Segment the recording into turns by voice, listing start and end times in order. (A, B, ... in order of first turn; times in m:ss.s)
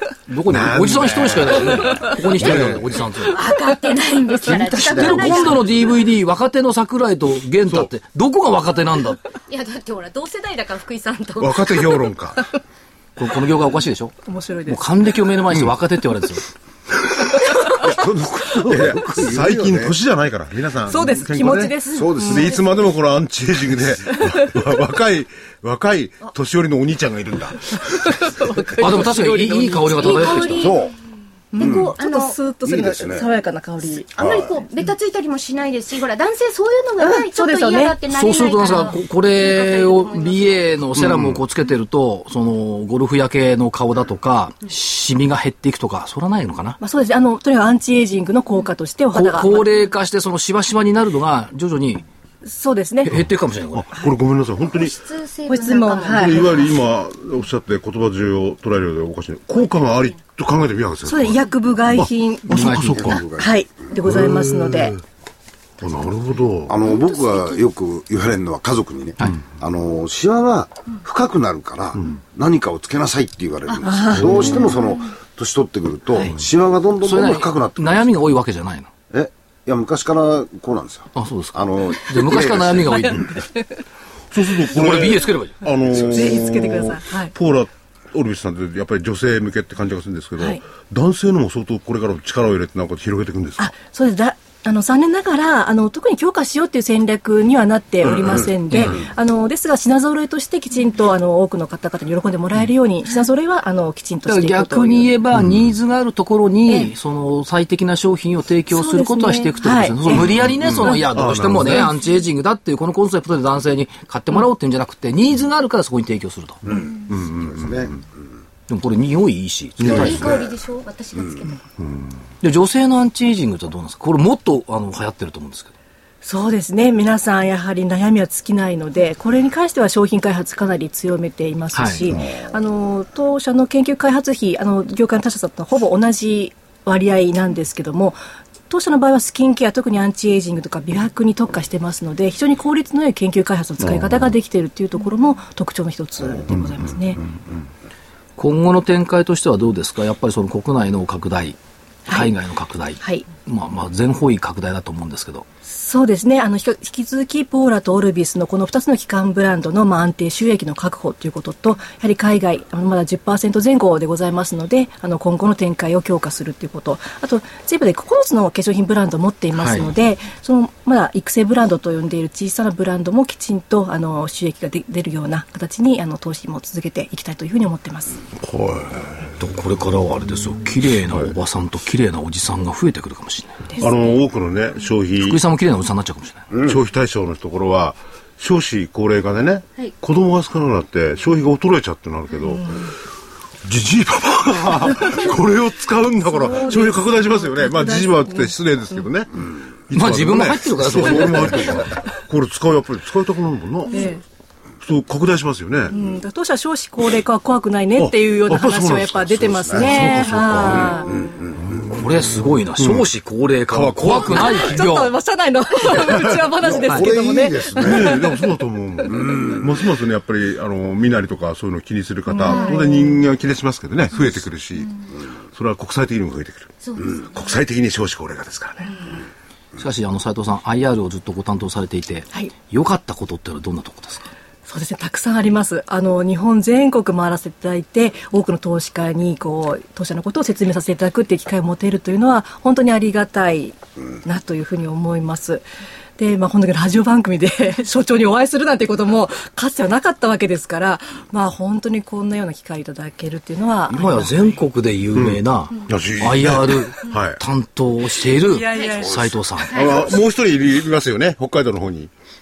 0:00.3-0:03.4 A
0:00.5-0:03.0 B
0:03.2-0:05.7 C
0:04.5-0:09.2 A
0:04.7-0:05.4 D
0:09.5-0:11.9 C
0:11.4-0:12.5 B
0:13.2-0:16.4 A
0:14.2-0:14.8 E
0:17.7-0:28.4 B
0:17.8-0:19.9 D
0:20.9-0:22.6 E
0:21.9-0:22.6 D
0:24.2-0:24.4 E
0:27.9-0:30.4 E
0:28.8-0:30.8 A
0:29.9-0:30.9 C
0:30.5-0:30.9 D
0:31.5-0:34.1 E
0:31.6-0:32.4 C
0:31.6-0:31.9 D
0:32.6-0:33.3 D
0:34.2-0:34.5 D
0:34.2-0:40.7 C
0:37.0-0:38.0 E
0:38.1-0:46.8 A
0:41.0-0:41.4 B
0:46.8-0:49.7 E
0:49.1-0:52.0 A
0:52.4-0:53.2 E
0:53.0-0:53.9 A
0:53.7-0:55.0 B
0:54.7-0:56.7 C
0:55.5-0:56.6 E
0:56.1-1:01.4 B
1:01.0-1:02.6 E
1:01.9-1:03.2 B
1:02.5-1:03.2 A
1:02.8-1:03.5 D
1:03.4-1:05.0 E
1:04.0-1:05.0 B
1:05.8-1:06.8 B
1:06.7-1:18.0 D
1:06.9-1:07.4 C
1:13.8-1:14.5 E
1:14.1-1:14.8 B
1:17.0-1:18.9 A
1:19.1-1:23.2 D
1:21.2-1:23.4 A
1:24.3-1:33.7 B
1:24.7-1:25.6 A
1:26.1-1:27.3 E
1:33.6-1:45.1 E
1:44.3-1:56.6 A
1:46.7-1:46.9 E
1:48.7-1:51.0 E
1:50.1-1:51.9 B
1:56.7-1:58.0 D
1:57.1-1:58.0 B
1:58.7-2:00.3 A
1:59.8-2:00.4 B
1:59.8-2:00.5 D
1:59.9-2:01.6 C
2:01.8-2:02.1 B
2:02.4-2:05.7 A
2:06.2-2:18.2 E
2:11.7-2:12.1 A
2:18.7-2:27.2 E
2:28.4-2:31.6 A
2:32.1-2:32.3 E
2:32.1-2:35.4 A
2:33.0-2:33.2 E
2:35.7-2:58.2 E
2:49.6-2:49.9 A
2:58.4-2:59.3 B
2:59.4-3:03.7 A
3:03.8-3:05.4 B
3:05.2-3:06.5 A
3:06.6-3:12.9 B
3:13.6-3:24.1 B
3:16.3-3:18.5 E
3:19.9-3:21.9 A
3:23.9-3:24.2 E
3:24.8-3:25.9 B
3:25.9-3:31.1 E
3:28.0-3:31.1 B
3:29.5-3:30.1 D
3:31.0-3:31.6 D
3:31.6-3:32.0 B
3:31.9-3:35.1 A
3:32.8-3:33.1 B
3:33.7-3:34.8 B
3:34.3-3:38.5 E
3:35.9-3:36.4 B
3:36.6-3:38.2 D
3:37.8-3:45.0 B
3:39.1-3:39.8 D
3:42.3-3:43.2 E
3:42.5-3:42.8 C
3:45.5-3:48.9 B
3:46.8-3:47.4 C
3:49.8-3:54.3 A
3:54.7-4:05.6 E
4:06.2-4:14.6 E
4:13.9-4:19.8 A
4:15.1-4:17.4 B
4:18.4-4:19.2 E
4:19.7-4:22.1 B
4:19.7-4:20.2 C